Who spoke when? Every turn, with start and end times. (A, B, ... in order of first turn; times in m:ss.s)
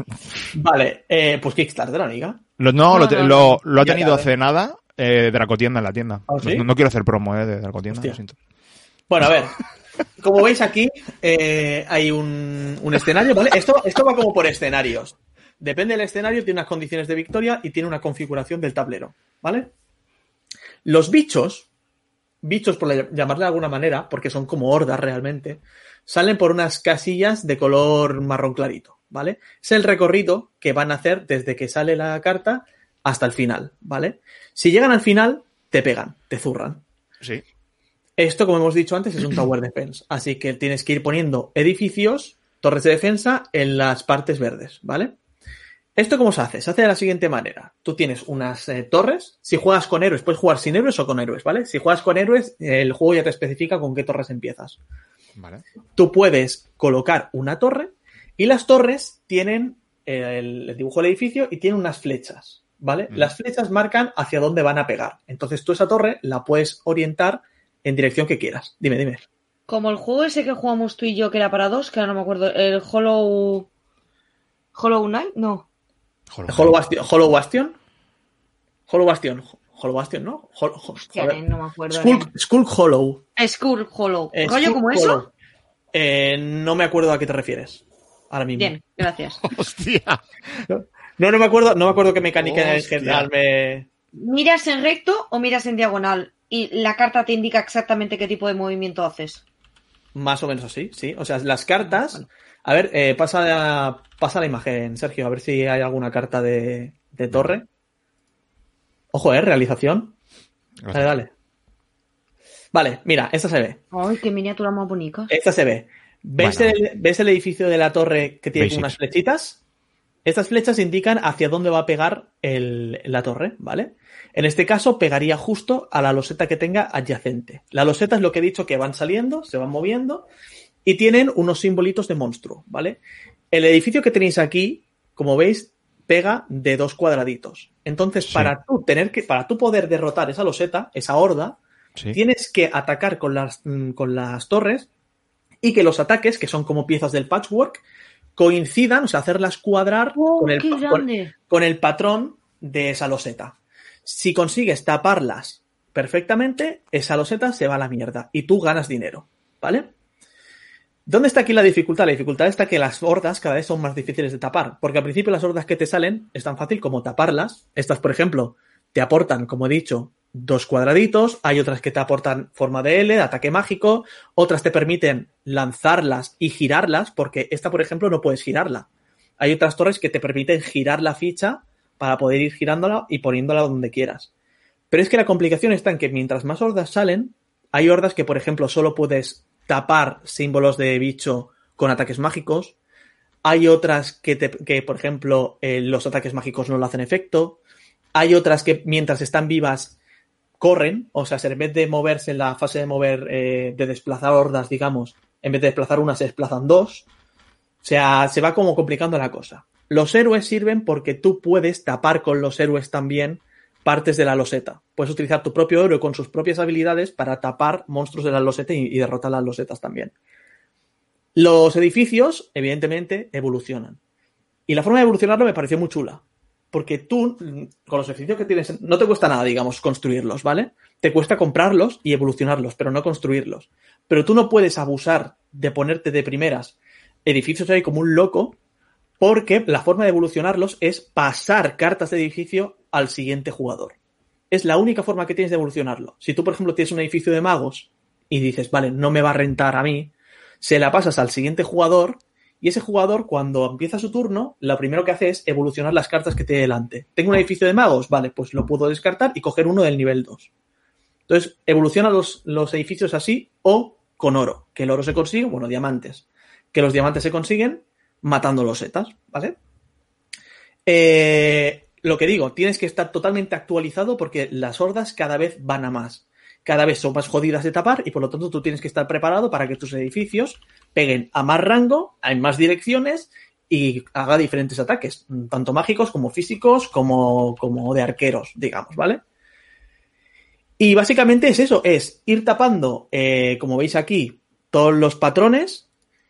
0:00.5-0:02.4 A
0:02.6-0:08.3 B
0:02.9-0:03.6 C
0:03.8-0:04.3 A
0:06.3-0:06.7 A
0:07.9-0:08.2 A
0:09.1-0:09.6 A
0:10.2-0:19.7 A
0:20.8-0:21.7 A
0:22.4-0:36.8 A
0:38.2-0:45.1 A
0:46.0-0:54.8 A
0:55.4-0:55.6 B
0:56.0-1:09.2 A
1:09.7-1:13.7 C
1:14.7-1:15.6 C
1:16.3-1:16.8 B
1:16.5-1:17.7 A
1:18.9-1:23.2 A
1:21.0-1:22.3 C
1:23.4-1:25.2 C
1:24.3-1:25.3 A
1:25.9-1:28.8 A
1:28.6-1:29.4 C
1:29.4-1:30.2 B
1:30.7-1:33.9 A
1:32.4-1:33.3 B
1:34.1-1:39.4 C
1:40.1-1:47.6 A
1:49.1-1:50.1 A
1:50.8-1:51.1 B
1:50.9-1:51.3 A
1:52.7-1:53.8 A
1:53.9-1:55.3 C
1:55.3-1:59.6 A
1:56.4-1:56.8 B
1:58.6-1:59.0 B
2:00.2-2:10.3 A
2:10.8-2:13.0 A
2:13.5-2:21.6 A
2:18.2-2:18.5 B
2:22.1-2:24.9 A
2:25.6-2:27.8 A
2:28.4-2:39.9 A
2:30.1-2:31.3 C
2:41.0-2:58.9 A
2:59.4-3:04.3 A
3:04.9-3:12.7 A
3:13.4-3:17.6 A
3:18.1-3:20.0 A
3:20.6-3:27.1 A
3:27.8-3:40.1 A
3:41.3-3:44.0 A
3:44.7-3:58.6 A
3:59.2-4:04.0 A
4:04.5-4:20.5 A
4:21.3-4:29.6 A
4:30.8-4:49.2 A
4:50.8-4:55.9 A